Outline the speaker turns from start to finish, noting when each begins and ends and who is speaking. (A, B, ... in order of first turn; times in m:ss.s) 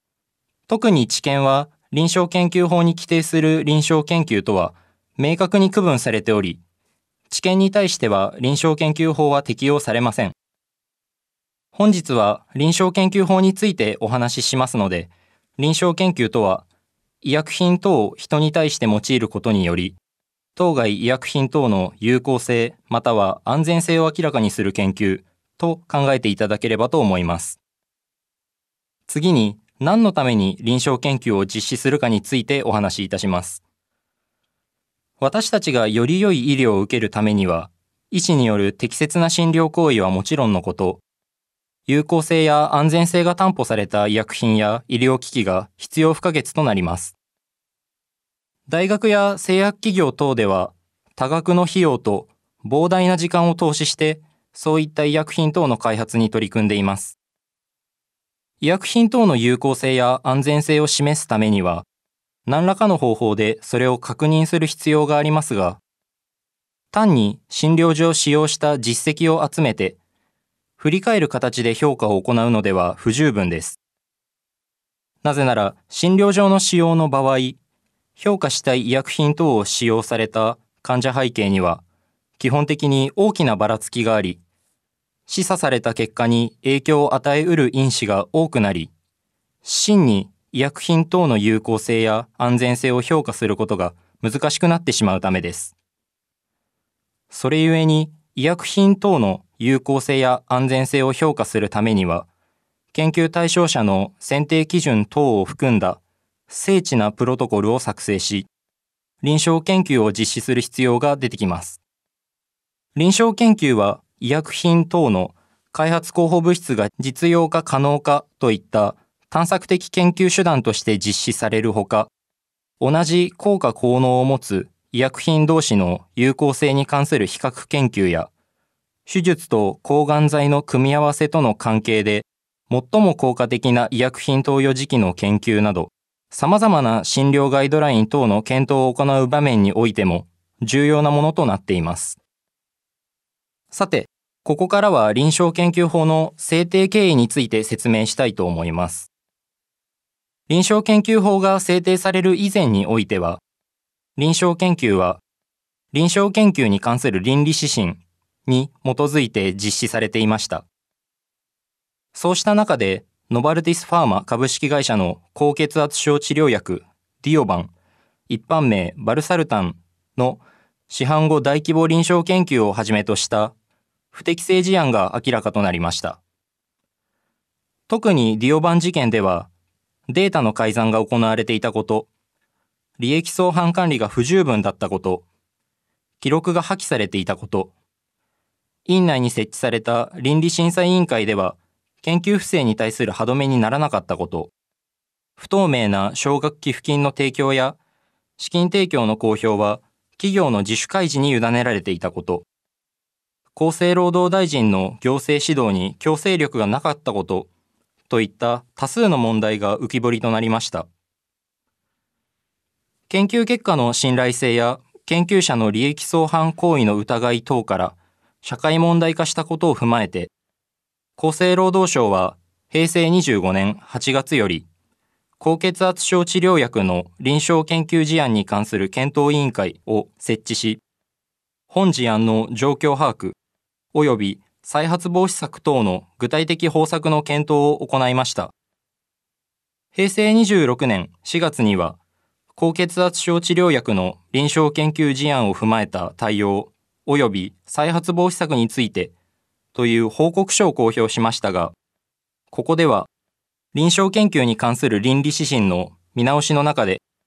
0:00.7-0:06.6 A
0:07.3-0:10.3 A
0:11.7-0:16.6 A
0:17.2-0:20.0 A
0:20.6-0:27.6 A
0:29.1-0:33.6 A
0:35.2-0:41.0 A
0:41.8-0:47.2 A
0:48.7-0:57.2 A
0:58.6-1:01.8 A
1:02.4-1:05.8 A
1:06.9-1:10.0 A
1:10.8-1:13.8 A
1:15.2-1:17.6 A
1:18.2-1:21.8 A
1:22.4-1:24.4 A
1:25.3-1:28.9 A
1:29.6-1:35.8 A
1:37.3-1:42.3 A
1:42.9-1:48.5 A
1:49.2-1:51.8 A
1:52.9-2:02.1 A
2:02.8-2:08.3 A
2:09.1-2:22.2 A
2:23.7-2:29.1 A
2:30.5-2:33.4 A
2:34.2-2:35.2 A
2:35.9-2:40.7 A
2:42.1-2:47.7 A
2:48.3-2:53.5 A
2:54.1-2:56.2 A
2:57.9-2:59.5 A
3:00.1-3:02.1 A
3:03.0-3:05.2 A
3:06.2-3:07.7 A
3:08.8-3:14.5 A
3:15.4-3:17.8 A
3:18.4-3:22.4 A
3:23.5-3:27.5 A
3:28.1-3:30.9 A
3:33.1-3:40.3 A
3:41.2-3:44.7 A
3:45.4-3:50.8 A
3:51.7-3:53.4 A
3:53.9-3:58.5 A
3:59.9-4:02.0 A
4:02.6-4:09.1 A
4:09.7-4:11.8 A
4:12.5-4:13.1 A
4:13.7-4:17.0 A